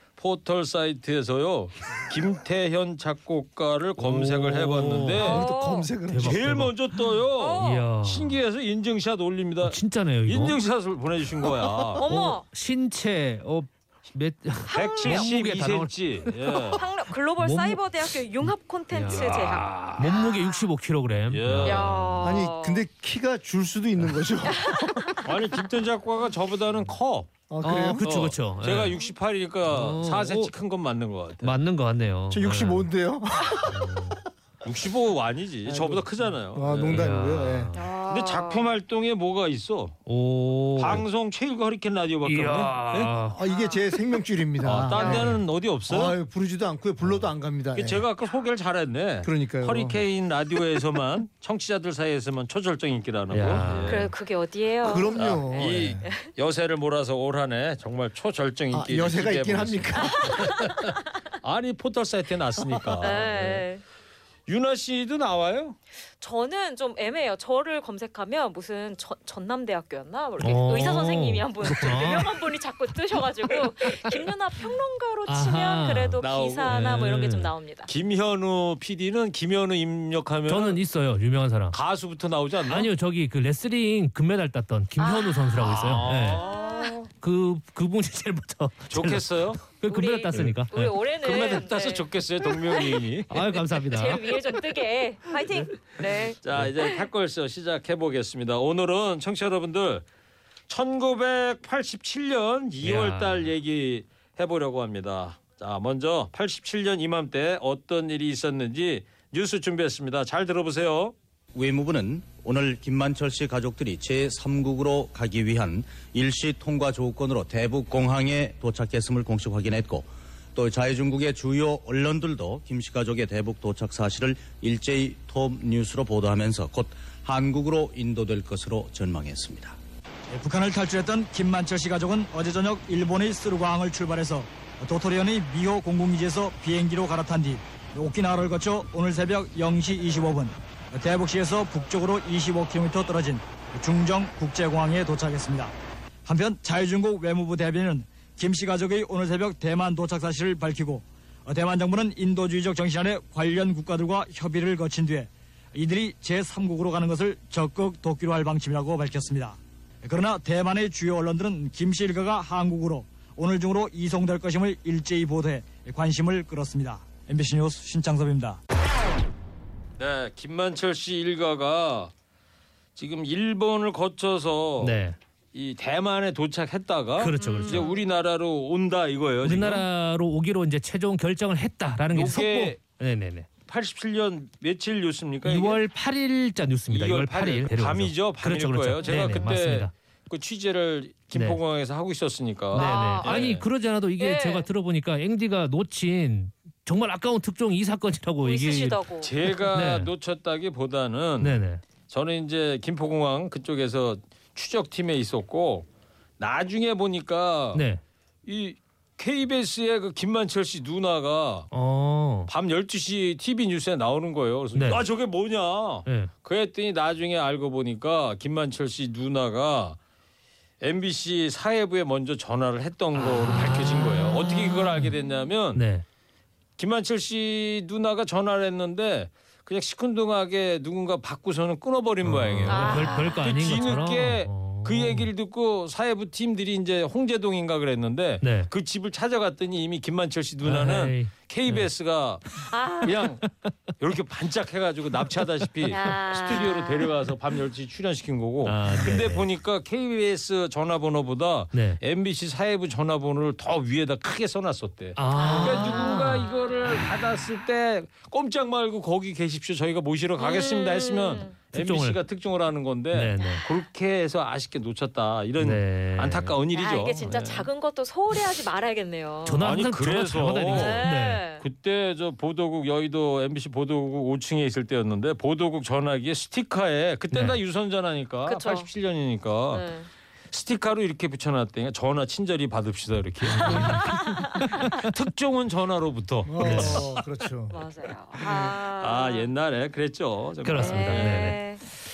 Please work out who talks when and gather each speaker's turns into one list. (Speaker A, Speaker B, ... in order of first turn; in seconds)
Speaker A: 0.2-5.4, 6.2-12.0, 14.7-16.8, 19.1-20.1, 21.3-22.4, 25.2-27.3, 28.0-31.6, 34.6-37.1, 38.0-40.0, 40.8-43.1, 44.6-46.2, 47.7-54.1, 55.1-63.6, 64.5-65.8, 76.2-77.0, 77.9-80.8, 81.7-82.9, 85.6-87.1, 88.9-89.6, 91.2-93.3, 96.4-100.0, 100.7-111.2, 170.0-172.1, 173.0-175.0, 175.5-179.8, 182.1-182.8, 183.7-185.8, 186.9-193.7, 199.2-205.9, 206.4-207.8, 208.4-211.7, 212.5-220.0, 220.8-225.8, 226.8-242.4, 243.0-243.5, 244.0-267.7, 269.6-271.1, 271.6-279.9, 280.5-284.2, 284.9-287.2, 288.4-291.5
Speaker B: 4.0-5.4, 6.1-6.8, 7.6-8.4, 9.6-10.6, 12.0-16.7, 17.4-17.8, 18.9-22.2, 27.6-29.0, 29.7-30.5, 31.4-32.9, 33.7-34.2, 36.9-37.8, 40.1-41.1, 42.2-43.4, 53.3-54.1, 70.4-72.4, 73.8-74.1, 75.3-77.5, 80.5-81.8, 82.7-86.5, 87.1-90.9, 93.3-94.4, 102.8-103.5, 174.8-175.2, 177.2-177.9, 179.4-183.5, 185.4-189.9, 191.3-191.6, 192.7-199.0, 199.6-200.1, 201.4-201.8, 207.7-208.0, 211.7-212.5, 214.7-215.1, 216.1-216.3, 223.2-224.4, 225.7-226.1, 232.2-235.3, 238.4-238.7, 240.6-241.9, 248.7-249.5, 251.7-252.0, 255.2-256.5, 261.7-262.2, 263.1-263.6, 265.6-266.6, 269.5-271.5, 277.3-277.6, 283.4-285.1, 286.6-287.1, 290.6-291.6
Speaker C: 5.2-5.9, 7.4-7.8, 12.0-12.4, 14.7-15.3, 16.8-20.7, 21.6-22.9, 24.5-25.2, 37.7-38.7, 45.0-45.3, 53.8-56.3, 60.3-60.6, 63.0-63.8, 66.2-77.9, 85.0-85.7, 86.4-86.9, 89.8-96.4, 177.4-178.0, 189.1-189.4, 192.7-193.6, 194.2-194.7, 198.4-199.3, 232.7-234.0, 242.6-243.1, 245.9-247.1, 255.3-256.5, 260.4-261.5, 266.7-269.6, 270.7-271.6, 278.5-278.9, 279.7-280.1, 283.7-284.9, 287.7-289.5, 290.8-291.8
Speaker D: 5.2-6.7, 22.2-25.2, 27.5-28.1, 32.3-33.9, 35.7-37.7, 43.3-48.0, 49.2-50.0, 54.8-56.0, 58.7-60.3, 286.5-287.8
Speaker E: 111.5-129.8
Speaker F: 130.3-168.6